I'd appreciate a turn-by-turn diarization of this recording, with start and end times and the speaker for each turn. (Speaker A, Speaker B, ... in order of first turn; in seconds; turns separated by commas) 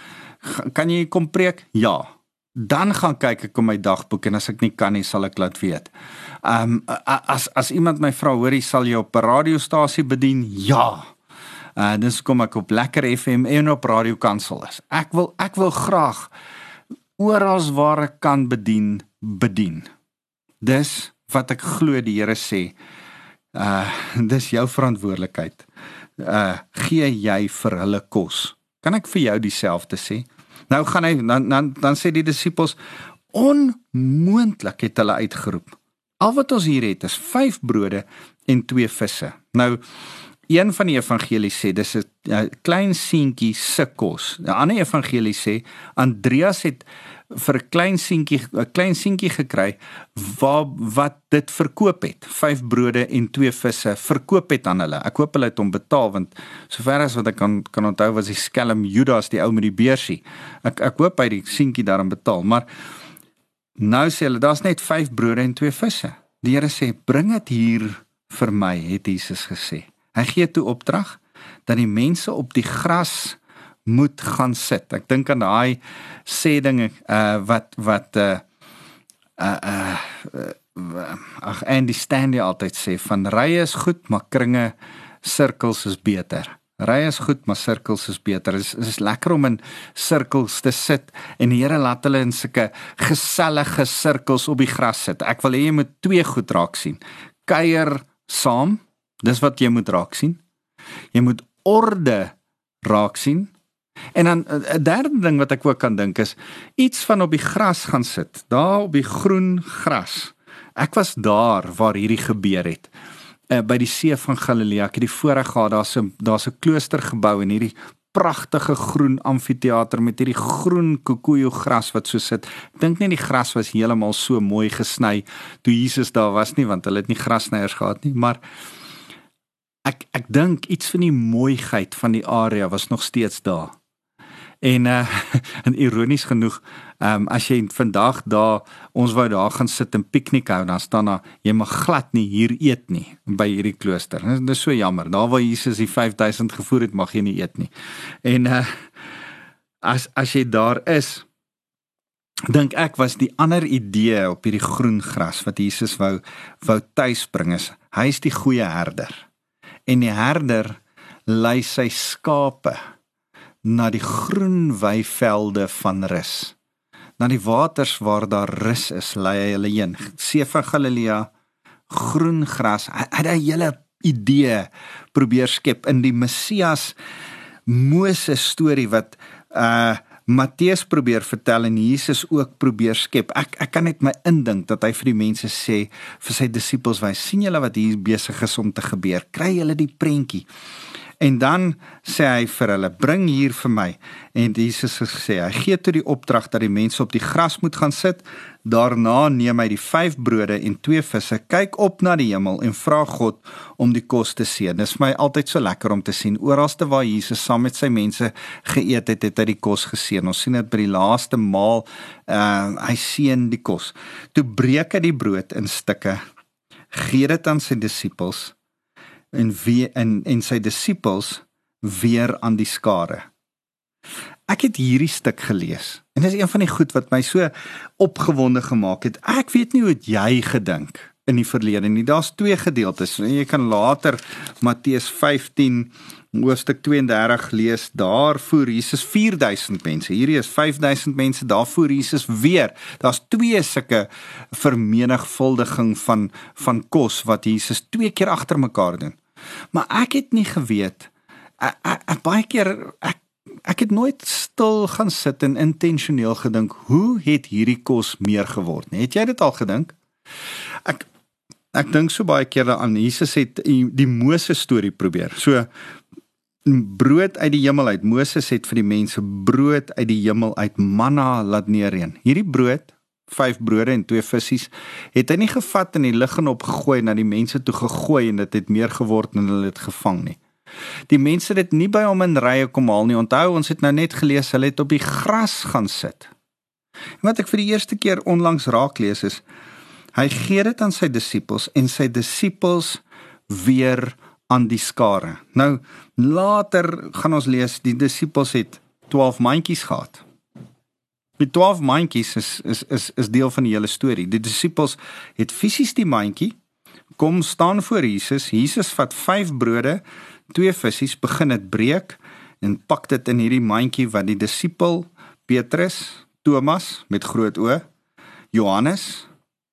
Speaker A: 0.4-5.9, Speaker A: 6.4-11.1, Speaker A: 11.8-16.3, Speaker A: 17.2-19.9, Speaker A: 20.6-22.7, Speaker A: 23.5-25.7, Speaker A: 26.2-32.8, Speaker A: 33.3-39.8, Speaker A: 40.5-62.6, Speaker A: 63.8-78.4, Speaker A: 79.4-100.4, Speaker A: 101.1-103.5, Speaker A: 104.2-112.9, Speaker A: 113.5-128.4, Speaker A: 129.8-133.8, Speaker A: 134.6-147.7, Speaker A: 148.2-148.7, Speaker A: 149.8-151.3, Speaker A: 152.5-159.2, Speaker A: 159.9-162.8, Speaker A: 163.6-166.6, Speaker A: 167.2-171.3, Speaker A: 171.9-176.9, Speaker A: 177.7-190.5, Speaker A: 191.2-216.2, Speaker A: 216.9-218.5, Speaker A: 219.3-223.3, Speaker A: 224.5-249.2, Speaker A: 249.7-259.9, Speaker A: 261.7-265.7, Speaker A: 266.7-280.4, Speaker A: 281.1-286.3, Speaker A: 287.2-289.4, Speaker A: 290.1-300.2, Speaker A: 301.4-306.5, Speaker A: 307.2-317.9, Speaker A: 318.5-319.3